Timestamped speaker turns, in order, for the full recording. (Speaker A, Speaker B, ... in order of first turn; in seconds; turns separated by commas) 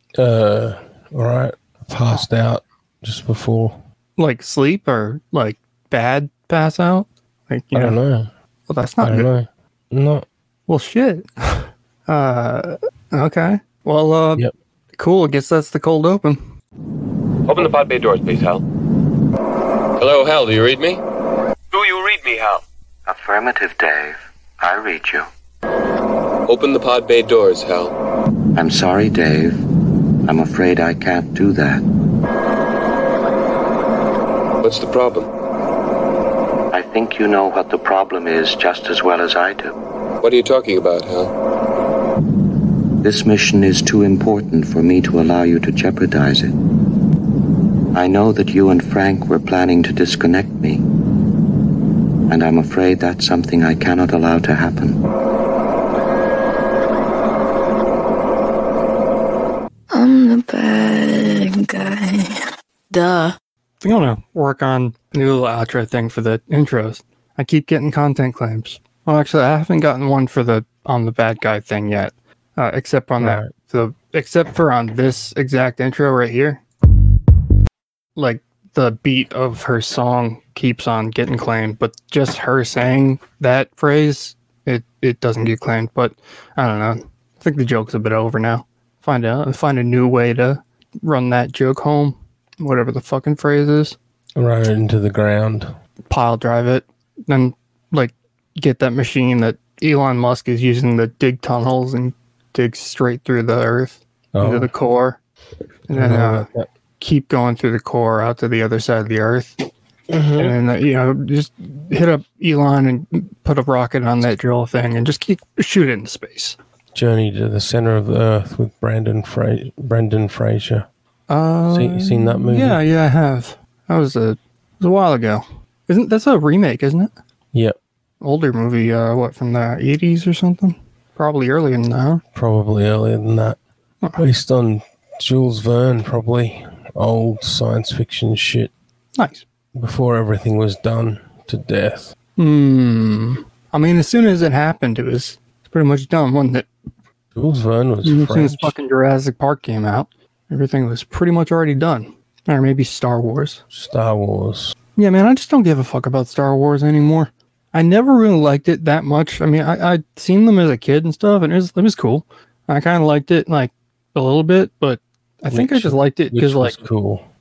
Speaker A: 0.2-3.8, Speaker B: 4.2-8.0, Speaker A: 7.7-8.3, Speaker B: 8.7-9.3, Speaker A: 9.0-10.3, Speaker B: 10.7-16.4, Speaker C: 17.5-18.6, Speaker C: 20.0-21.0, Speaker C: 21.7-22.6, Speaker D: 23.1-25.3, Speaker C: 26.5-27.9, Speaker D: 28.6-29.6, Speaker D: 30.3-31.8, Speaker C: 34.6-35.3, Speaker D: 36.7-39.8, Speaker C: 40.2-41.3, Speaker D: 43.0-46.5, Speaker D: 47.9-50.8, Speaker D: 52.3-55.0, Speaker E: 59.9-63.4, Speaker B: 63.8-76.6, Speaker A: 73.2-73.5, Speaker B: 78.2-94.0, Speaker A: 94.4-95.8, Speaker B: 96.1-105.2, Speaker A: 104.3-104.7, Speaker B: 105.9-106.5, Speaker A: 105.9-106.7, Speaker B: 107.0-109.7, Speaker A: 110.1-110.5, Speaker B: 110.4-116.6, Speaker A: 117.0-120.9, Speaker B: 121.3-127.1, Speaker A: 121.7-122.8, Speaker B: 128.2-132.2, Speaker A: 132.3-133.6, Speaker A: 134.2-138.7, Speaker B: 139.2-139.4, Speaker A: 139.8-142.1, Speaker B: 142.4-146.7, Speaker A: 147.3-148.8, Speaker B: 148.0-153.6, Speaker A: 153.7-154.8, Speaker B: 155.0-166.8, Speaker A: 165.5-167.2